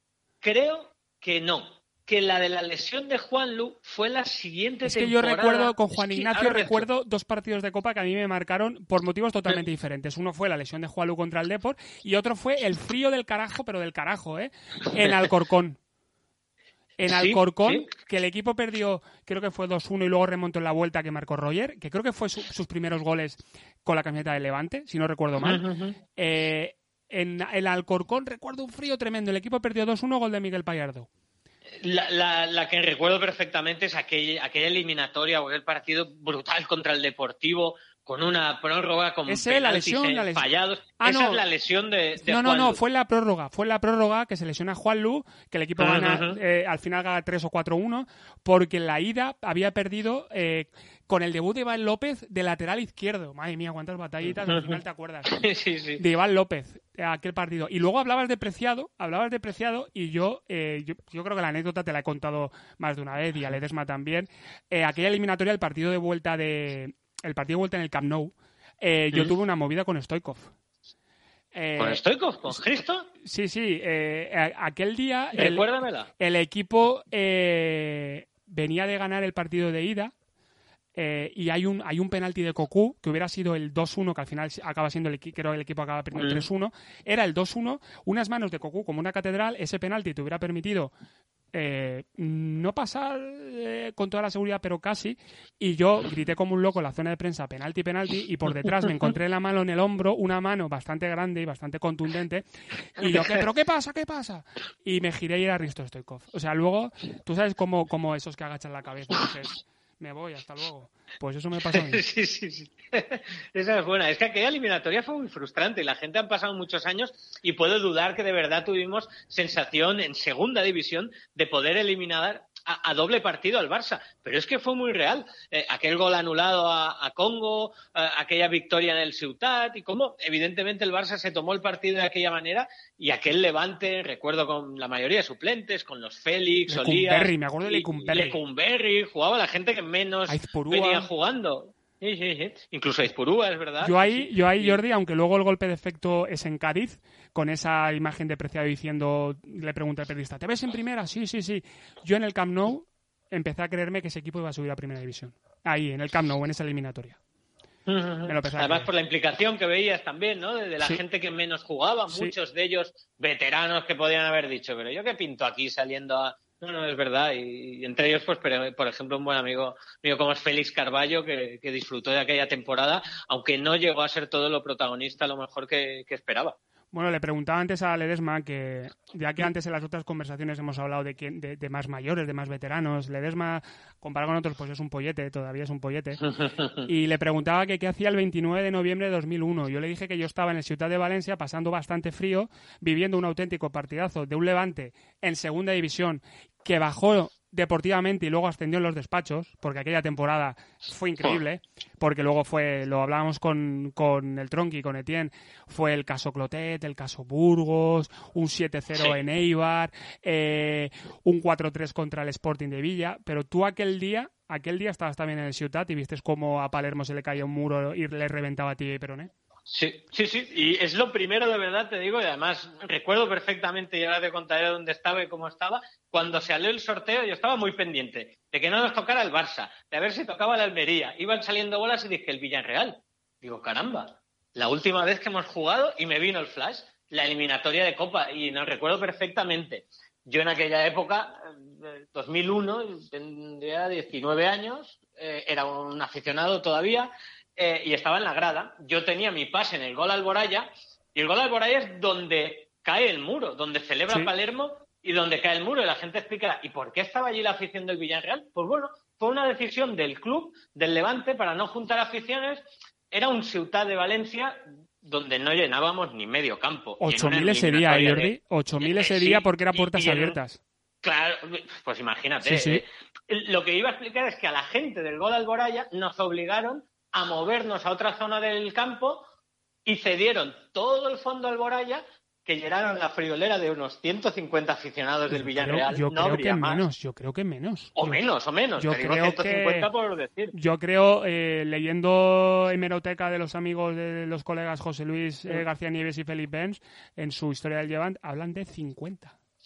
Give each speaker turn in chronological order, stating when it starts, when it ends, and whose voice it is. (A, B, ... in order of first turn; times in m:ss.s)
0:00.4-0:06.9 A
0:04.8-0:15.8 B
0:17.0-0:25.6 B
0:17.1-0:17.9 A
0:25.4-0:26.0 A
0:26.2-0:31.1 B
0:31.8-0:42.8 A
0:39.3-0:40.5 B
0:41.0-0:41.4 B
0:42.2-0:55.4 B
0:45.8-0:46.4 A
0:54.4-0:56.0 A
0:56.0-1:10.5 B
1:11.5-1:12.0 B
1:11.8-1:13.1 A
1:13.2-1:15.7 B
1:15.3-1:16.1 A
1:16.2-1:20.1 B
1:21.0-1:30.9 B
1:26.1-1:26.5 A
1:31.5-1:52.0 B
1:43.0-1:43.4 A
1:51.7-2:24.8 A
2:16.7-2:18.4 B
2:20.3-2:21.1 B
2:23.8-2:37.2 B
2:37.9-2:56.6 A
2:38.3-2:38.9 B
2:42.1-2:42.4 B
2:56.9-3:06.2 B
3:06.4-3:06.8 A
3:06.8-3:39.3 B
3:39.7-4:30.4 A
4:27.0-4:30.6 B
4:31.0-4:39.2 A
4:32.4-4:32.8 B
4:39.8-4:46.8 A
4:45.3-4:48.2 B
4:48.0-4:50.5 A
4:48.8-4:49.9 B
4:50.5-4:59.4 B